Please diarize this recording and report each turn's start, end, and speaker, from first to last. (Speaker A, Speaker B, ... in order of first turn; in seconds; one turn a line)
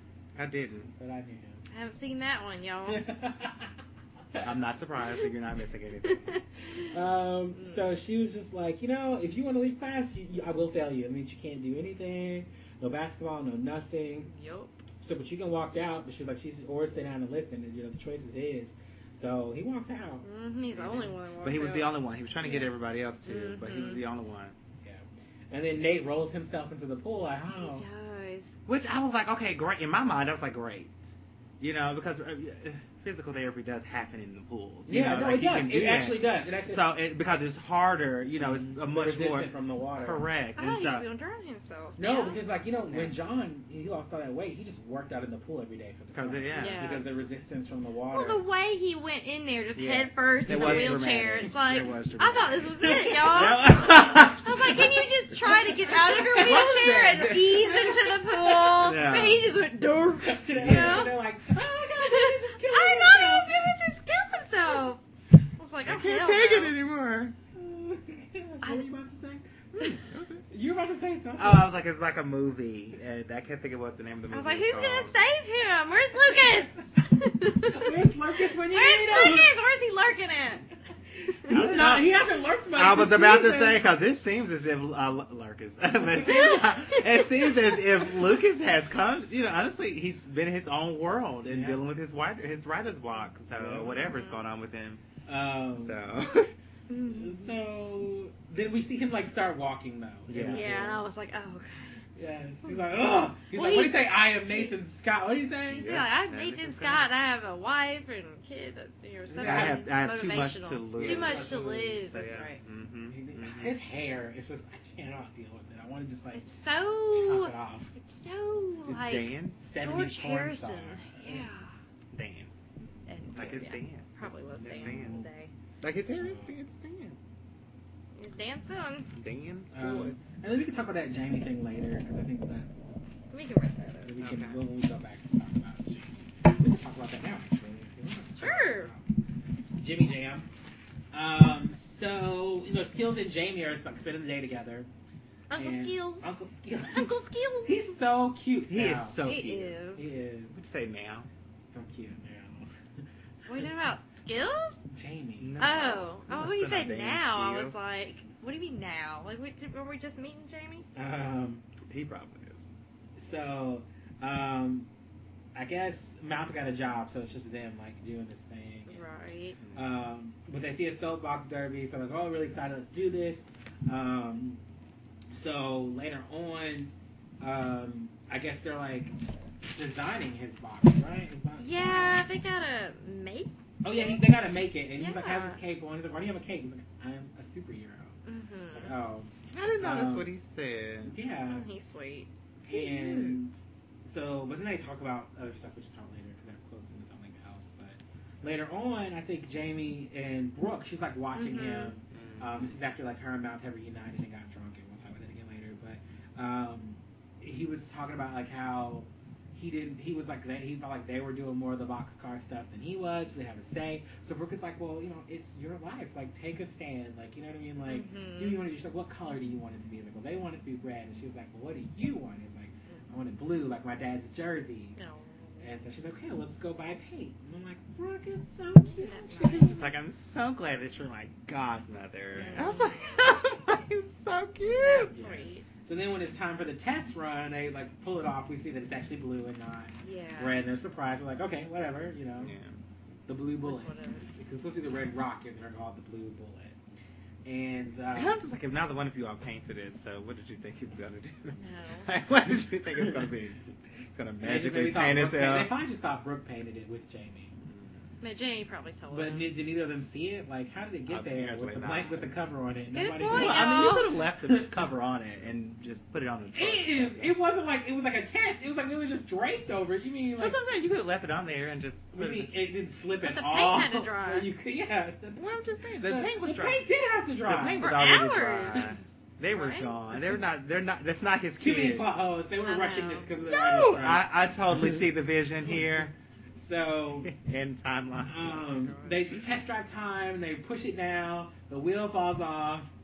Speaker A: 0.3-0.9
Speaker B: 1.0-1.6
Speaker C: 1.7-3.0
Speaker B: 2.9-3.7
Speaker A: 4.4-6.3
Speaker C: 6.0-6.8
Speaker B: 6.9-14.3
Speaker C: 7.6-7.8
Speaker C: 14.3-14.8
Speaker B: 15.0-20.2
Speaker C: 20.2-22.0
Speaker A: 20.8-24.6
Speaker C: 23.2-24.0
Speaker B: 24.8-27.9
Speaker C: 27.6-28.6
Speaker A: 28.7-41.1
Speaker B: 34.9-36.9
Speaker B: 38.4-40.3
Speaker C: 40.6-42.4
Speaker B: 42.0-48.4
Speaker A: 42.9-43.1
Speaker A: 46.1-46.9
Speaker C: 46.5-47.1
Speaker C: 48.1-61.2
Speaker B: 49.8-51.5
Speaker A: 50.5-54.9
Speaker B: 52.8-54.9
Speaker B: 55.4-58.6
Speaker A: 56.4-57.4
Speaker A: 58.7-59.4
Speaker B: 60.2-63.8
Speaker A: 60.6-61.1
Speaker C: 61.9-65.0
Speaker C: 65.6-66.8
Speaker A: 65.8-67.4
Speaker B: 67.6-70.0
Speaker A: 69.8-70.5
Speaker B: 70.5-71.7
Speaker A: 71.4-75.2
Speaker C: 74.3-78.0
Speaker B: 77.7-79.5
Speaker C: 78.7-80.7
Speaker B: 81.3-83.8
Speaker A: 81.5-82.2
Speaker A: 82.8-95.0
Speaker C: 86.1-87.7
Speaker B: 91.5-91.8
Speaker B: 93.5-94.0
Speaker C: 93.8-94.4
Speaker B: 95.3-96.0
Speaker A: 95.8-96.5
Speaker C: 96.9-97.6
Speaker B: 97.0-101.1
Speaker A: 100.3-100.7
Speaker C: 100.5-101.9
Speaker B: 102.2-106.0
Speaker C: 103.5-104.8
Speaker C: 105.7-112.6
Speaker A: 105.8-107.1
Speaker B: 109.3-109.9
Speaker A: 109.4-113.8
Speaker B: 111.0-112.1
Speaker B: 113.1-116.5
Speaker C: 116.3-121.7
Speaker B: 117.1-117.9
Speaker A: 118.8-119.6
Speaker B: 119.6-121.5
Speaker A: 122.1-122.5
Speaker C: 123.1-125.5
Speaker A: 123.3-125.2
Speaker B: 124.7-125.3
Speaker A: 125.8-127.2
Speaker B: 126.2-126.5
Speaker C: 128.2-129.1
Speaker A: 129.2-130.2
Speaker B: 129.7-133.0
Speaker C: 133.3-134.1
Speaker B: 134.1-139.0
Speaker A: 134.2-134.6
Speaker C: 138.4-138.9
Speaker B: 139.8-140.5
Speaker B: 141.1-144.9
Speaker C: 145.5-146.3
Speaker B: 145.5-149.2
Speaker C: 146.9-147.8
Speaker A: 148.7-149.8
Speaker C: 149.2-150.1
Speaker B: 150.0-150.5
Speaker A: 150.5-151.3
Speaker B: 151.7-152.7
Speaker C: 153.5-154.8
Speaker B: 154.9-155.6
Speaker A: 155.4-157.8
Speaker C: 155.6-160.9
Speaker B: 160.9-161.6
Speaker A: 161.9-162.7
Speaker B: 163.2-164.9
Speaker B: 165.6-169.0
Speaker C: 168.9-169.6
Speaker A: 169.6-169.9
Speaker B: 169.8-174.6
Speaker B: 175.3-179.2
Speaker B: 179.8-182.3
Speaker C: 181.6-185.6
Speaker B: 183.8-188.2
Speaker C: 188.2-188.9
Speaker B: 188.7-190.3
Speaker A: 189.5-191.1
Speaker B: 191.1-191.7
Speaker C: 191.5-192.3
Speaker B: 192.7-225.0
Speaker A: 192.7-193.4
Speaker C: 201.3-201.9
Speaker A: 202.1-202.8
Speaker C: 217.9-218.6
Speaker C: 225.0-225.7
Speaker B: 225.6-229.8
Speaker C: 228.9-229.9
Speaker A: 229.4-235.2
Speaker C: 232.3-233.2
Speaker B: 232.5-232.8
Speaker C: 234.6-235.7
Speaker B: 235.1-242.6
Speaker C: 240.0-240.6
Speaker A: 242.4-242.8
Speaker B: 243.3-246.8
Speaker C: 243.6-244.3
Speaker B: 247.4-248.4
Speaker A: 248.1-255.8
Speaker C: 251.5-252.1
Speaker B: 254.4-257.5
Speaker A: 257.6-258.1
Speaker C: 258.2-259.5
Speaker B: 259.1-264.8
Speaker A: 261.1-262.3
Speaker C: 262.9-264.1
Speaker A: 263.3-267.4
Speaker B: 266.6-270.6
Speaker A: 270.4-272.5
Speaker B: 272.1-275.5
Speaker C: 273.2-274.5
Speaker A: 275.4-276.9
Speaker B: 276.0-278.0
Speaker A: 277.5-282.1
Speaker C: 277.8-279.9
Speaker B: 278.7-279.0
Speaker B: 281.6-284.3
Speaker C: 282.6-283.3
Speaker A: 283.5-286.1
Speaker B: 285.6-287.3
Speaker A: 287.2-288.6
Speaker B: 288.2-292.9
Speaker C: 288.7-289.3